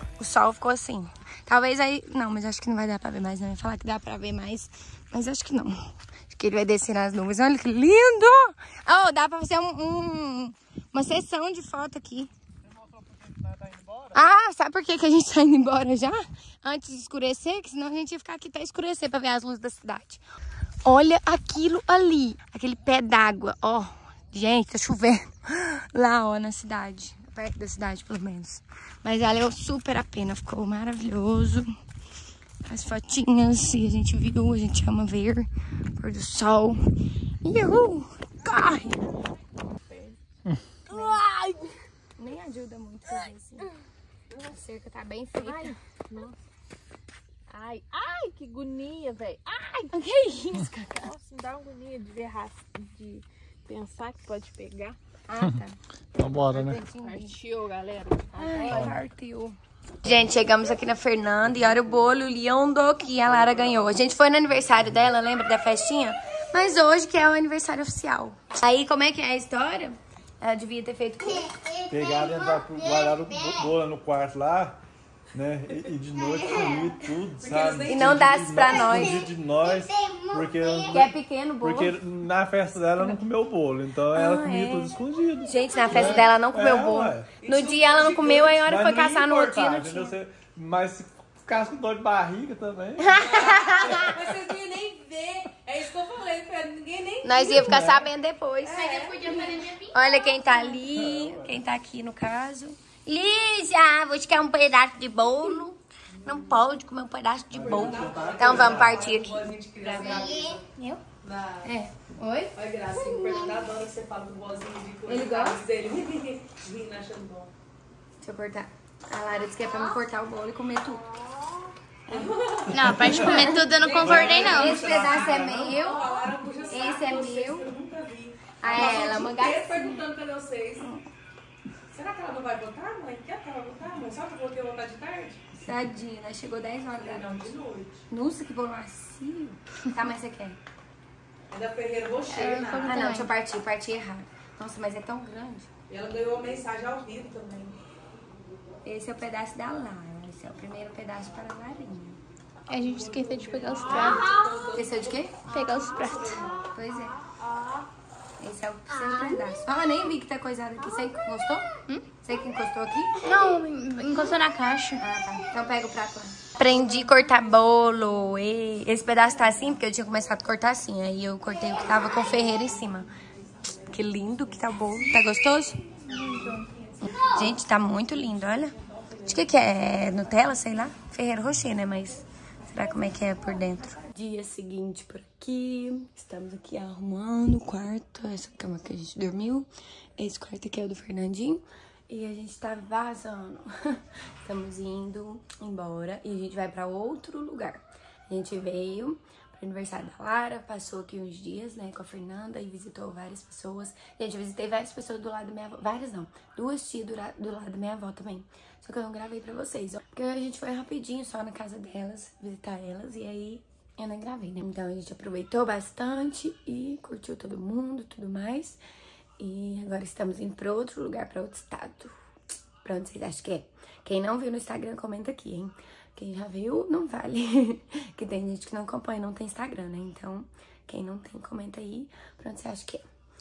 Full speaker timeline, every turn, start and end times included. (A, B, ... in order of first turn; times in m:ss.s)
0:00.2-0:12.3 A
0:12.7-0:14.2 B
0:14.1-0:20.2 A
0:20.8-0:31.7 A
0:32.6-0:39.0 A
0:39.9-0:40.2 C
0:40.9-0:41.8 C
0:40.9-0:41.2 A
0:42.2-0:43.7 A
0:44.3-0:44.6 C
0:44.5-0:45.8 A
0:45.4-0:46.3 C
0:47.5-0:49.9 C
0:49.9-0:51.1 A
0:51.0-0:55.0 C
0:55.3-0:55.8 A
0:56.2-0:56.8 B
0:56.5-0:57.4 A
0:57.0-0:59.0 C
0:58.4-1:11.5 A
0:58.7-0:58.9 B
1:11.9-1:14.8 B
1:15.3-1:27.3 B
1:17.4-1:18.4 D
1:17.8-1:19.3 A
1:20.9-1:22.0 A
1:24.1-1:30.2 A
1:27.4-1:28.6 D
1:28.6-1:34.1 B
1:33.0-1:34.1 A
1:33.2-1:37.7 D
1:37.2-1:50.6 A
1:37.5-1:38.1 B
1:38.6-1:39.5 D
1:38.8-1:39.8 E
1:40.9-1:41.6 B
1:46.2-1:46.6 D
1:47.5-1:49.1 B
1:47.5-1:50.6 D
1:51.2-1:51.7 D
1:51.6-1:52.5 A
1:52.5-1:57.5 D
1:55.1-1:55.6 A
1:58.2-2:01.0 A
2:02.1-2:10.9 D
2:02.7-2:04.8 E
2:03.2-2:06.1 A
2:04.0-2:05.7 B
2:06.6-2:07.7 A
2:08.6-2:10.1 A
2:11.9-2:15.4 D
2:15.6-2:17.5 A
2:17.0-2:18.0 D
2:18.1-2:20.6 A
2:21.5-2:23.1 D
2:22.3-2:23.3 E
2:22.4-2:25.7 A
2:25.9-2:27.8 D
2:28.8-2:32.2 A
2:32.7-2:34.5 E
2:32.7-2:36.7 D
2:34.7-2:35.4 A
2:35.4-2:36.4 E
2:36.7-2:37.2 A
2:37.3-2:37.8 C
2:38.4-2:43.3 A
2:43.2-2:45.0 E
2:45.0-2:53.1 A
2:53.9-2:55.8 A
2:56.1-2:56.7 D
2:57.0-3:38.8 A
3:39.4-3:42.1 A
3:42.8-3:53.0 A